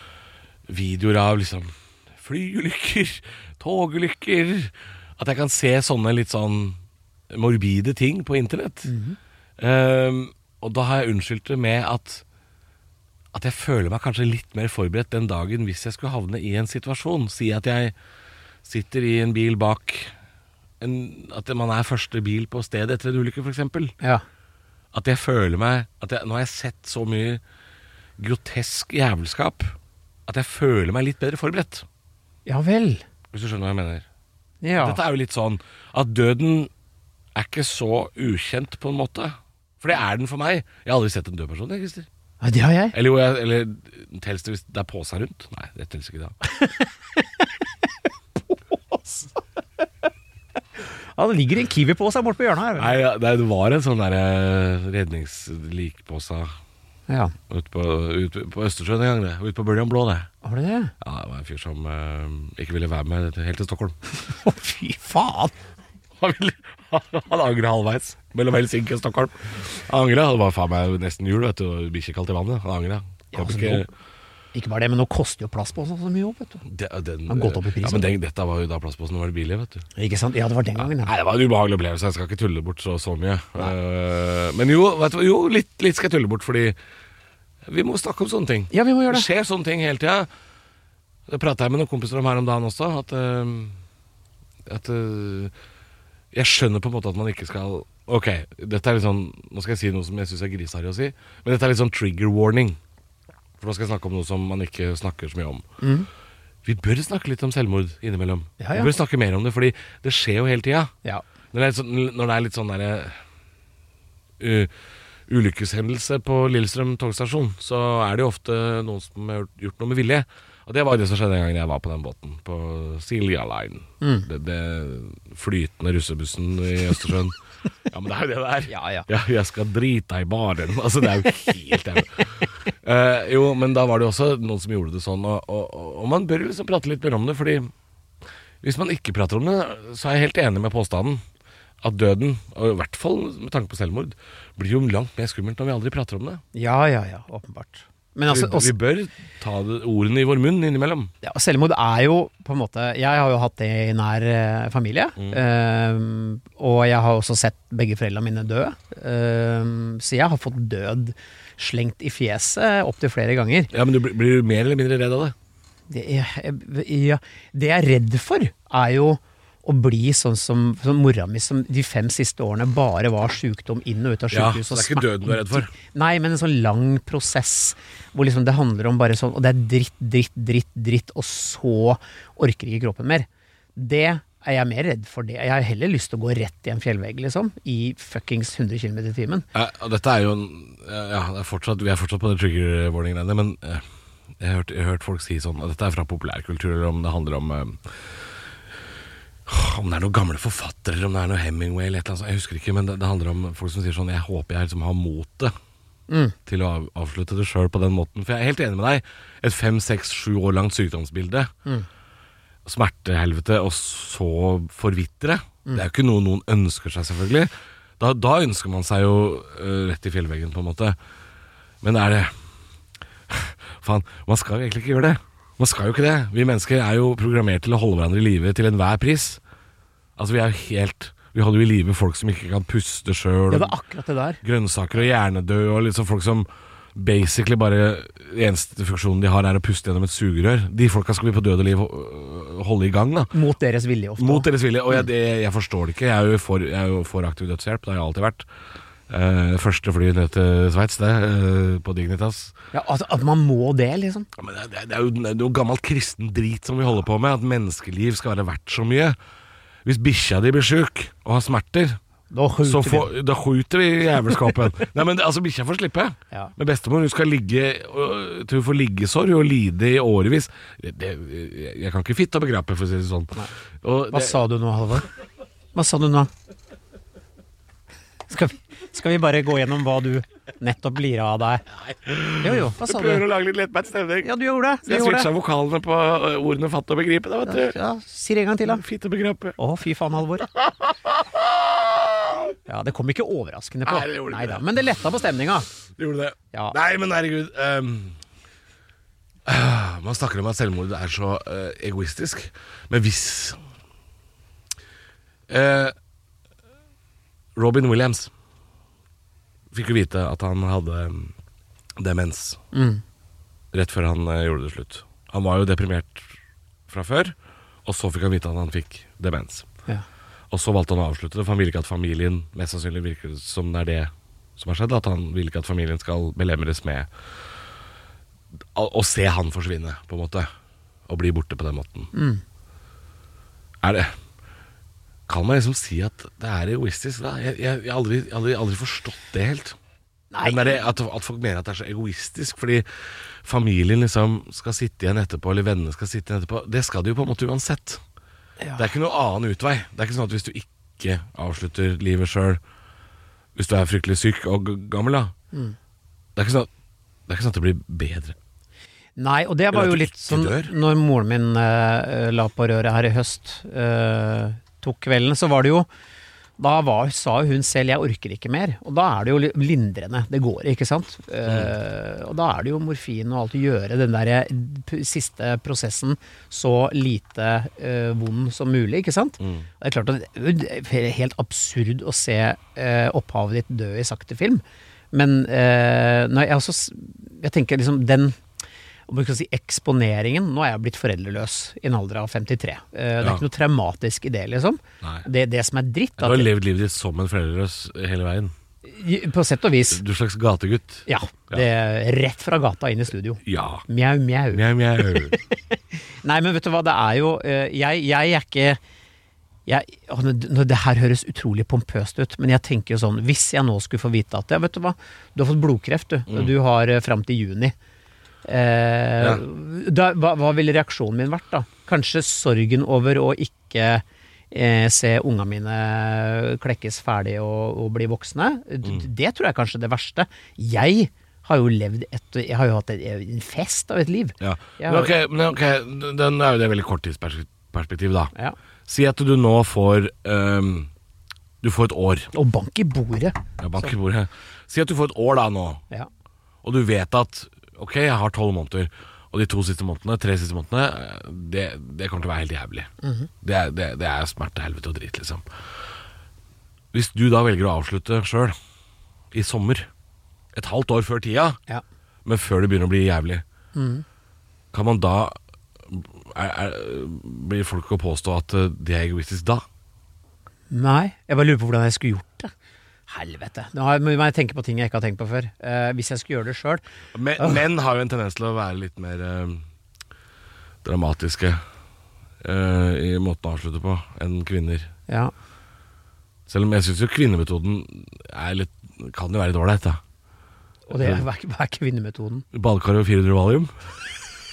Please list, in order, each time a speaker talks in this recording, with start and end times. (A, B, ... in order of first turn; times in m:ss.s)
0:00.7-0:06.8 A
0:07.3-0:08.9 A
0:08.8-0:09.2 B
0:09.6-0:12.2 A
0:13.3-0:17.9 A
0:18.6-0:20.1 A
0:20.8-0:23.9 A
0:24.9-0:27.4 A
0:28.2-0:29.8 A
0:30.3-0:31.8 A
0:32.4-0:33.0 B
0:33.3-0:34.0 A
0:34.6-0:35.0 B
0:34.8-0:36.7 A
0:37.3-0:42.1 A
0:42.4-0:42.9 B
0:42.9-0:46.4 A
0:48.5-0:49.4 B
0:51.2-0:53.0 B
0:52.8-0:56.5 A
0:57.1-0:57.3 B
0:57.5-1:00.3 A
1:00.4-1:00.9 B
1:01.0-1:04.0 A
1:04.1-1:05.5 B
1:06.2-1:13.9 A
1:13.3-1:13.9 B
1:14.5-1:16.6 B
1:16.6-1:19.8 A
1:17.3-1:18.1 B
1:20.0-1:21.1 B
1:20.8-1:26.8 A
1:27.6-1:30.3 A
1:28.7-1:29.3 B
1:31.3-1:33.8 A
1:34.6-1:35.5 A
1:36.3-1:42.8 A
1:43.6-1:45.6 A
1:45.8-1:46.1 B
1:46.6-1:50.9 A
1:48.6-1:48.9 B
1:51.5-1:53.2 A
1:54.4-1:54.7 A
1:55.3-2:07.4 A
2:04.0-2:04.3 B
2:07.9-2:17.7 A
2:08.7-2:09.1 B
2:18.6-2:21.2 A
2:21.8-2:26.4 A
2:26.5-2:28.7 B
2:28.3-2:31.1 A
2:31.2-2:43.7 B
2:35.2-2:35.4 A
2:43.7-2:45.3 A
2:45.9-3:09.5 B
2:54.3-2:55.7 A
3:09.5-3:13.8 A
3:14.4-3:18.2 A
3:19.4-3:25.5 A
3:26.1-3:26.4 B
3:26.4-3:31.5 A
3:32.6-3:41.0 A
3:41.8-3:42.3 A
3:43.3-3:49.4 A
3:50.2-3:53.7 A
3:53.5-3:54.4 B
3:54.4-4:03.3 A
4:03.3-4:04.5 B
4:04.2-4:08.4 A
4:09.1-4:12.5 A
4:12.7-4:14.3 B
4:14.4-4:19.2 A
4:19.8-4:22.0 A
4:22.3-4:23.1 B
4:22.6-4:34.4 A
4:34.1-4:35.1 B
4:35.7-4:36.3 B
4:38.3-4:41.6 B
4:41.8-4:47.8 A
4:42.4-4:43.2 B
4:44.2-4:45.3 B
4:47.4-4:48.8 B
4:48.6-4:49.6 A
4:49.6-4:50.5 B
4:50.6-4:52.5 A
4:52.6-4:55.7 B
4:53.8-4:54.6 A
4:56.0-4:58.2 A
4:59.4-5:03.6 A
5:05.5-5:05.9 A
5:07.6-5:08.3 A
5:09.7-5:11.3 A
5:12.0-5:12.6 A
5:12.7-5:13.0 B
5:13.7-5:16.4 A
5:16.9-5:19.7 A
5:20.5-5:27.1 A
5:28.7-5:30.5 A
5:31.1-5:32.1 A
5:32.1-5:32.4 B
5:33.8-5:34.1 A
5:35.3-5:39.8 A
5:40.3-5:40.7 B
5:40.4-5:42.8 A
5:43.4-5:48.0 A
5:48.6-5:48.9 B
5:48.8-5:52.6 A
5:53.5-5:55.3 A
5:56.4-5:56.7 A
5:57.3-5:58.4 A
5:59.2-6:05.9 B
5:59.7-6:00.7 A
6:06.6-6:28.4 B
6:11.4-6:11.7 A
6:19.4-6:19.7 A
6:29.1-6:36.5 B
6:36.2-6:38.5 A
6:38.8-6:40.0 B
6:39.9-6:41.6 A
6:41.1-6:48.8 B
6:43.4-6:43.8 A
6:44.5-6:45.4 A
6:49.6-6:57.7 B
6:58.4-7:15.1 B
7:14.4-7:18.3 A
7:18.9-7:20.9 A
7:21.6-7:22.3 A
7:22.3-7:23.9 B
7:23.6-7:25.8 A
7:26.6-7:32.9 A
7:33.0-7:33.3 B
7:33.4-7:35.4 A
7:36.9-7:38.5 A
7:39.3-7:39.9 A
7:40.5-7:41.6 A
7:42.2-7:43.4 A
7:43.7-7:44.0 B
7:44.7-7:45.4 A
7:45.9-7:49.6 A
7:50.7-7:52.5 B
7:53.1-7:56.8 B
7:57.1-7:59.6 A
8:00.8-8:01.6 A
8:02.4-8:04.9 A
8:06.5-8:10.0 A
8:10.9-8:12.4 B
8:10.9-8:11.2 A
8:12.5-8:13.7 A